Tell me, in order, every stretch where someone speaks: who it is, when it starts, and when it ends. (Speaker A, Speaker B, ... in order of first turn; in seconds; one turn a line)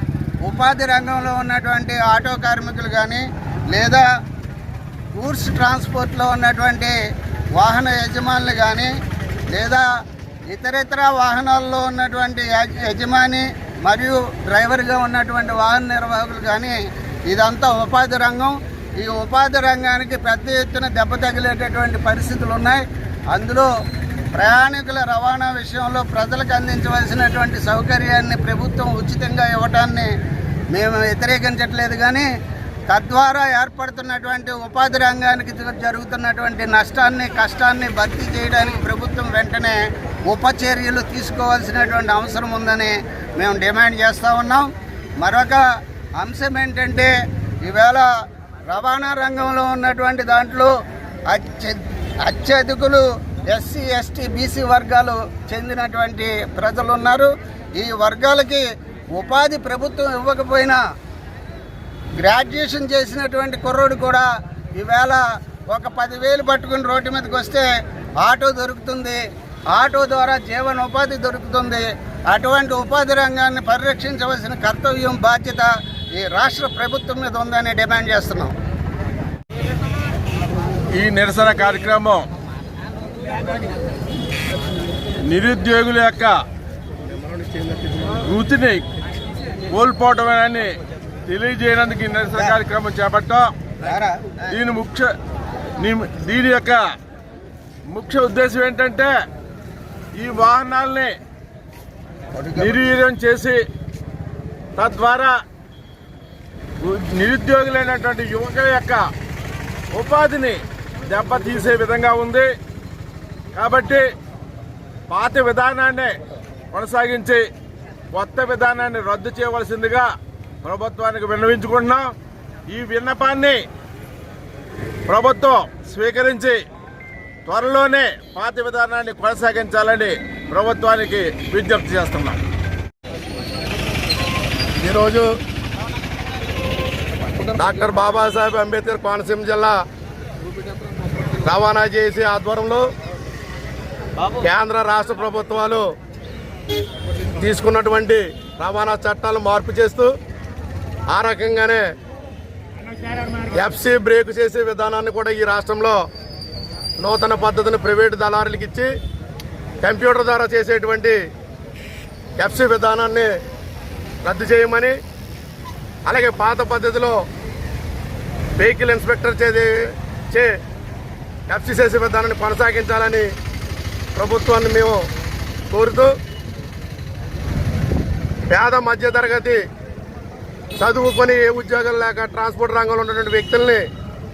Speaker A: 0.4-4.0
Speaker A: 5.1-6.9
Speaker A: 7.6-8.9
Speaker A: 9.5-9.8
Speaker A: 10.5-16.8
Speaker A: 17.3-23.7
Speaker A: 24.3-30.1
Speaker A: 30.7-32.3
Speaker A: 32.9-44.7
Speaker A: 45.2-45.6
Speaker A: 46.2-47.1
Speaker A: 47.6-48.1
Speaker A: 48.7-50.7
Speaker A: 51.3-58.6
Speaker A: 59.1-60.8
Speaker A: 62.2-67.7
Speaker A: 68.2-69.2
Speaker A: 69.7-78.5
Speaker B: 81.0-82.2
Speaker B: 85.2-86.4
Speaker B: 88.3-88.8
Speaker B: 89.7-90.8
Speaker B: 91.3-93.5
Speaker A: 93.8-94.4
Speaker B: 94.5-95.1
Speaker B: 95.8-96.9
Speaker B: 97.9-99.1
Speaker B: 100.2-101.1
Speaker A: 102.3-102.7
Speaker B: 102.6-103.6
Speaker B: 104.8-105.3
Speaker B: 106.8-109.0
Speaker B: 109.9-112.5
Speaker B: 113.5-114.0
Speaker B: 115.1-116.2
Speaker B: 116.7-117.4
Speaker B: 118.1-120.1
Speaker B: 120.6-122.1
Speaker B: 122.7-123.6
Speaker B: 125.1-126.6
Speaker B: 127.5-132.4
Speaker C: 134.8-135.3
Speaker C: 137.6-139.8
Speaker C: 141.4-142.8
Speaker C: 144.4-145.9
Speaker C: 147.4-150.1
Speaker C: 151.1-151.9
Speaker B: 153.1-153.5
Speaker C: 153.5-156.0
Speaker C: 157.0-158.9
Speaker C: 159.8-161.2
Speaker C: 162.4-163.3
Speaker C: 164.2-164.9
Speaker C: 166.1-167.2
Speaker C: 168.6-169.8
Speaker C: 171.5-173.3
Speaker C: 174.2-175.0
Speaker C: 175.7-176.1
Speaker C: 178.5-179.6
Speaker C: 180.8-183.8